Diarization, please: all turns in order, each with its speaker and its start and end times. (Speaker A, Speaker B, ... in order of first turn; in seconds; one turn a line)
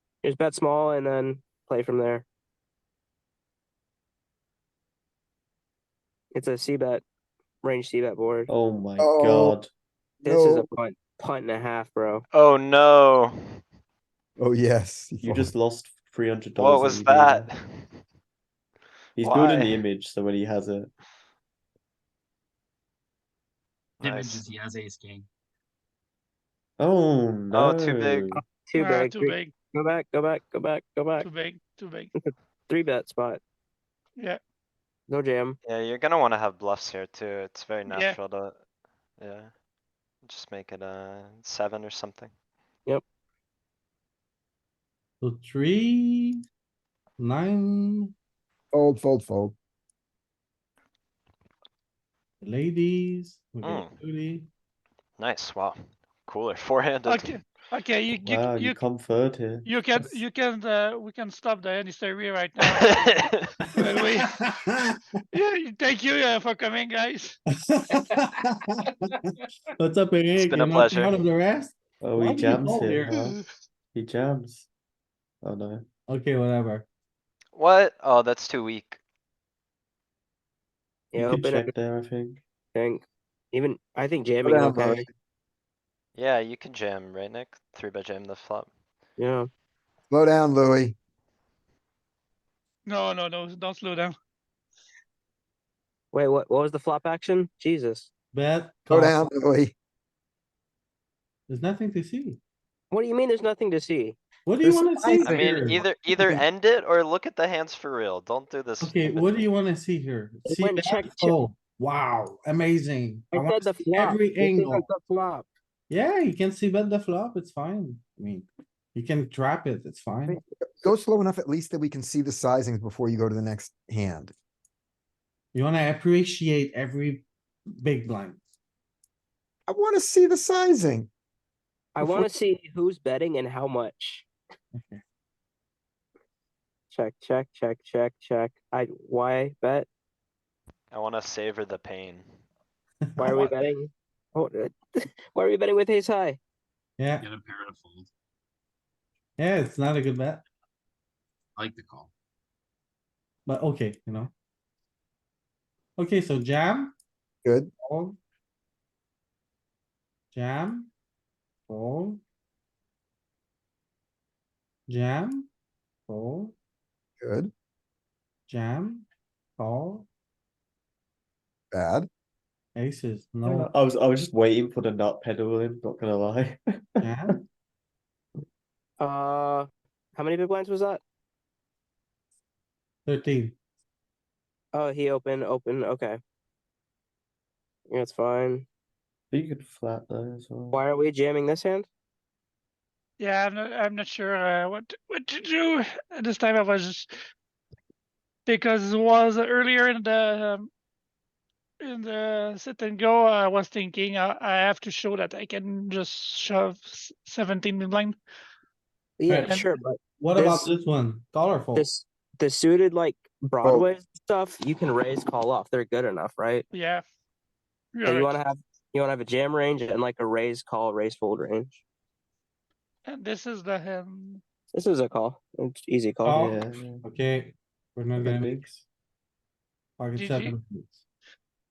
Speaker A: 0.2-2.2
Speaker A: 6.3-7.0
Speaker A: 7.6-8.5
Speaker B: 8.5-9.7
Speaker C: 9.0-9.6
Speaker A: 10.2-12.2
Speaker C: 10.3-10.6
Speaker D: 12.3-13.6
Speaker C: 14.4-15.5
Speaker B: 15.2-17.5
Speaker D: 16.6-17.9
Speaker B: 19.2-20.9
Speaker D: 19.2-19.9
Speaker D: 24.0-24.4
Speaker E: 24.0-25.3
Speaker B: 26.8-28.4
Speaker D: 27.5-28.3
Speaker A: 28.5-31.3
Speaker F: 28.8-29.5
Speaker F: 31.2-32.1
Speaker A: 32.7-33.4
Speaker A: 35.1-35.6
Speaker D: 35.6-38.6
Speaker F: 37.9-38.2
Speaker D: 39.2-39.5
Speaker D: 40.3-42.3
Speaker G: 45.2-46.4
Speaker G: 47.2-48.1
Speaker G: 49.1-49.5
Speaker G: 52.4-54.5
Speaker D: 53.6-53.9
Speaker D: 55.2-57.5
Speaker F: 57.1-58.8
Speaker B: 58.1-60.1
Speaker F: 59.7-62.8
Speaker D: 62.7-63.8
Speaker F: 63.9-64.2
Speaker F: 65.3-67.4
Speaker G: 67.7-68.4
Speaker G: 69.8-73.0
Speaker D: 70.4-71.2
Speaker B: 72.0-73.4
Speaker B: 73.9-74.7
Speaker B: 75.4-75.8
Speaker G: 76.1-76.9
Speaker D: 77.5-79.0
Speaker A: 81.1-81.7
Speaker B: 81.2-82.4
Speaker A: 82.7-85.1
Speaker C: 84.5-85.0
Speaker D: 86.2-88.7
Speaker A: 89.2-89.5
Speaker C: 90.1-91.0
Speaker F: 92.9-94.2
Speaker A: 96.1-98.1
Speaker G: 98.3-99.3
Speaker C: 99.0-99.7
Speaker G: 101.5-102.4
Speaker A: 102.9-105.5
Speaker G: 104.5-105.9
Speaker D: 105.2-109.4
Speaker G: 108.8-114.9
Speaker A: 110.5-111.3
Speaker A: 113.3-115.5
Speaker G: 115.9-120.4
Speaker A: 120.3-120.9
Speaker C: 120.8-124.3
Speaker G: 125.5-127.3
Speaker G: 127.8-128.4
Speaker C: 129.7-131.1
Speaker A: 132.0-134.3
Speaker G: 134.8-135.0
Speaker A: 136.9-139.9
Speaker D: 140.9-142.3
Speaker G: 143.1-143.5
Speaker A: 143.2-146.4
Speaker G: 147.0-147.2
Speaker E: 147.2-148.1
Speaker G: 149.4-150.4
Speaker E: 151.6-152.1
Speaker G: 153.5-154.3
Speaker G: 156.0-156.9
Speaker G: 157.8-158.2
Speaker G: 160.3-160.9
Speaker G: 161.7-162.2
Speaker G: 164.9-165.5
Speaker G: 166.1-166.5
Speaker C: 167.2-167.5
Speaker G: 168.5-169.1
Speaker G: 169.6-170.1
Speaker C: 171.7-172.1
Speaker G: 172.8-173.7
Speaker B: 173.4-177.2
Speaker G: 177.0-177.3
Speaker A: 179.0-181.0
Speaker G: 183.1-183.6
Speaker A: 184.7-186.2
Speaker A: 187.9-188.7
Speaker B: 189.3-190.8
Speaker A: 190.7-191.9
Speaker F: 193.2-197.1
Speaker F: 198.5-200.7
Speaker F: 201.8-208.2
Speaker A: 209.2-210.7
Speaker G: 209.3-209.6
Speaker F: 209.4-209.7
Speaker G: 210.2-211.9
Speaker A: 211.8-216.7
Speaker F: 216.7-217.0
Speaker F: 217.9-218.4
Speaker A: 218.1-221.8
Speaker F: 223.1-224.4
Speaker A: 224.7-226.5
Speaker G: 226.2-228.5
Speaker B: 226.3-227.0
Speaker B: 228.2-228.8
Speaker G: 230.0-231.0
Speaker F: 230.2-230.6